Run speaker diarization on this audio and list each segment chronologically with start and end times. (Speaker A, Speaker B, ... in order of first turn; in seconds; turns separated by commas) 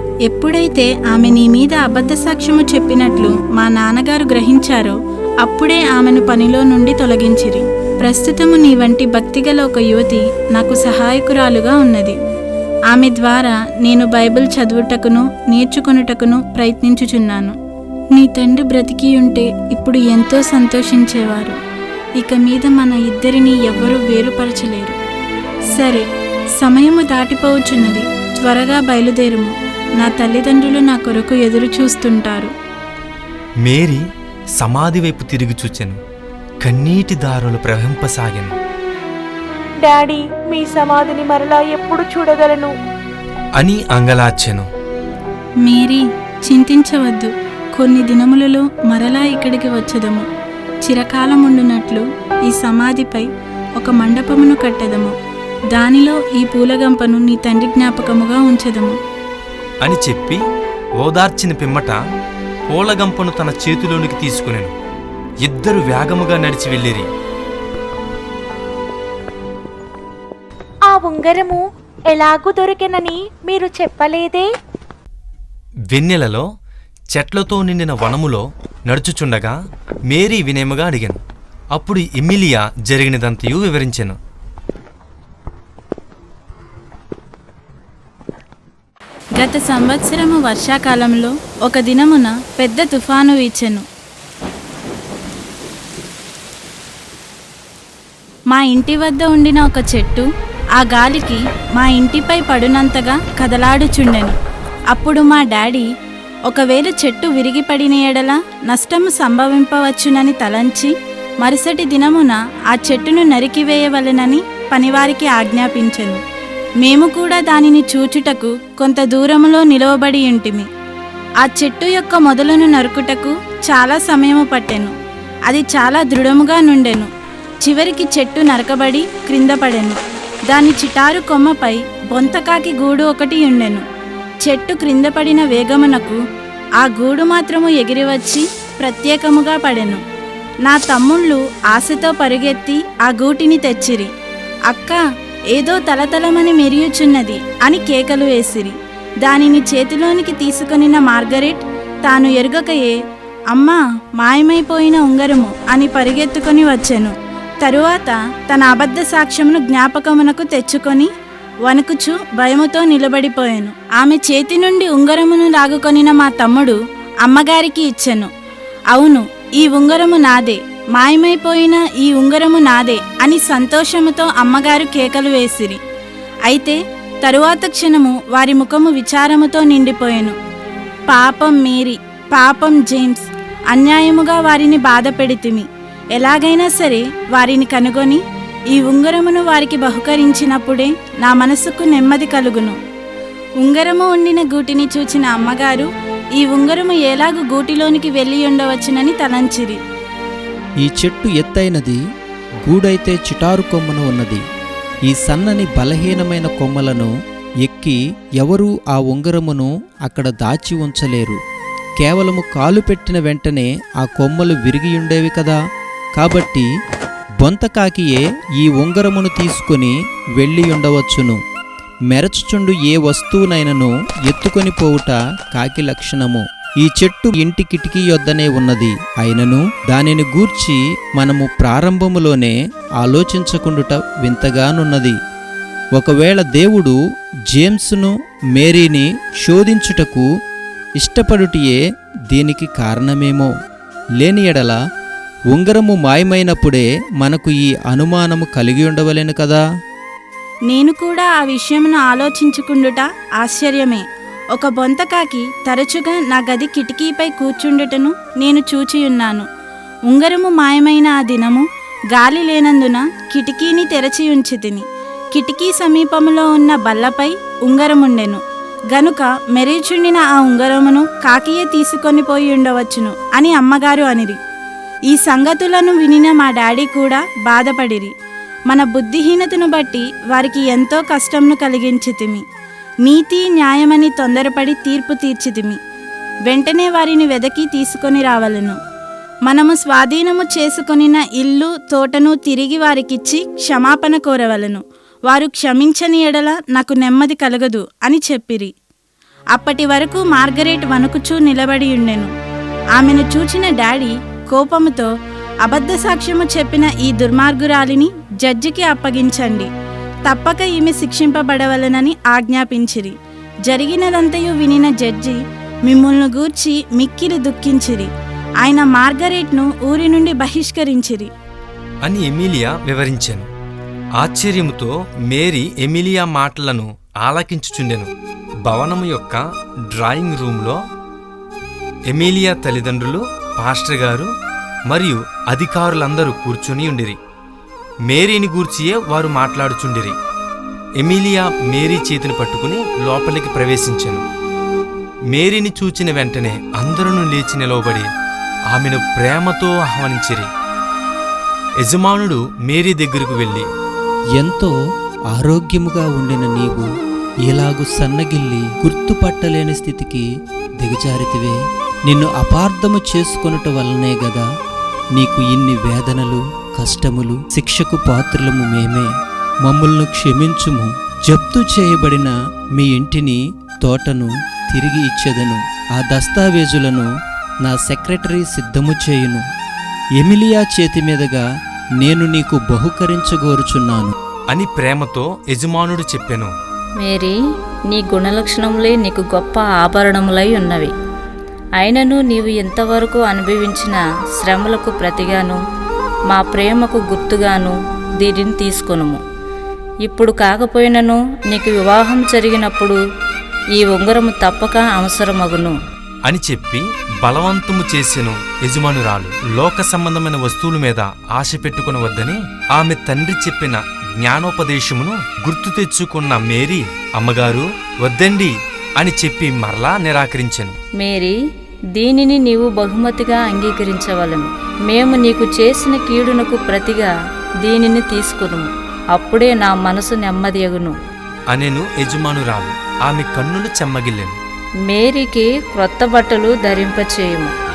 Speaker A: 0.3-12.2, Speaker A: 12.9-17.6, Speaker A: 18.1-21.6, Speaker A: 22.2-25.0, Speaker A: 25.8-26.1, Speaker A: 26.6-32.5, Speaker B: 33.6-34.0, Speaker B: 34.6-36.0, Speaker B: 36.6-38.6, Speaker C: 39.8-42.7, Speaker B: 43.6-44.7, Speaker A: 45.7-50.3, Speaker A: 50.9-53.3, Speaker A: 53.8-55.1, Speaker A: 55.7-59.0, Speaker B: 59.8-60.4, Speaker B: 61.0-62.0, Speaker B: 62.7-64.7, Speaker B: 65.5-67.1, Speaker C: 70.9-74.5, Speaker B: 75.9-76.4, Speaker B: 77.2-79.5, Speaker B: 80.1-81.2, Speaker B: 81.8-84.2, Speaker A: 89.4-93.8, Speaker A: 98.5-100.3, Speaker A: 100.8-104.4, Speaker A: 104.9-105.9, Speaker A: 106.5-116.2, Speaker A: 116.8-120.7, Speaker A: 121.4-125.0, Speaker A: 125.5-127.1, Speaker A: 127.6-130.0, Speaker A: 130.5-133.8, Speaker A: 134.4-136.2, Speaker A: 136.8-140.0, Speaker A: 140.7-144.1, Speaker A: 144.7-145.0, Speaker A: 145.5-153.0, Speaker A: 153.5-161.1, Speaker A: 161.7-168.3, Speaker A: 168.9-175.8, Speaker A: 176.5-180.4, Speaker A: 181.1-188.2, Speaker A: 188.7-192.8, Speaker A: 193.6-199.8, Speaker D: 200.8-202.0, Speaker D: 202.7-204.4, Speaker D: 205.1-207.1, Speaker D: 207.6-211.4, Speaker D: 212.0-215.6, Speaker D: 216.2-216.7, Speaker D: 217.4-221.4, Speaker D: 222.1-235.2, Speaker D: 236.0-237.0, Speaker D: 237.5-240.2, Speaker D: 241.0-241.8, Speaker D: 242.3-243.5, Speaker D: 244.2-244.8, Speaker D: 245.5-249.6, Speaker A: 250.7-254.0, Speaker A: 254.5-259.5, Speaker A: 260.1-268.4, Speaker A: 268.9-274.4, Speaker A: 275.1-278.1, Speaker A: 278.7-282.4, Speaker A: 283.1-285.8, Speaker A: 286.5-288.8, Speaker A: 289.5-298.7, Speaker A: 299.6-302.3, Speaker A: 303.0-305.1, Speaker A: 305.6-309.7, Speaker A: 310.3-313.1, Speaker A: 313.7-318.1, Speaker A: 318.6-321.3, Speaker B: 322.0-323.5, Speaker B: 324.2-328.1, Speaker B: 328.7-329.4, Speaker B: 329.9-330.8, Speaker B: 332.1-334.3, Speaker B: 334.9-337.2, Speaker B: 338.1-340.2, Speaker B: 341.0-344.2, Speaker B: 345.3-348.1, Speaker B: 348.7-350.5, Speaker B: 351.8-353.7, Speaker D: 354.4-354.7, Speaker D: 355.3-356.9, Speaker D: 357.5-360.2, Speaker D: 360.8-364.4, Speaker D: 365.2-369.1, Speaker D: 369.6-377.1, Speaker D: 377.6-379.4, Speaker D: 380.2-381.4, Speaker D: 382.0-384.1, Speaker B: 384.5-386.5, Speaker E: 387.0-387.4, Speaker E: 387.9-390.9, Speaker E: 391.8-395.6, Speaker E: 396.3-399.2, Speaker E: 400.0-403.0, Speaker E: 403.8-405.8, Speaker B: 406.3-420.8, Speaker E: 420.9-421.4, Speaker E: 422.0-427.1, Speaker E: 427.6-431.0, Speaker B: 431.5-434.4, Speaker E: 434.9-437.5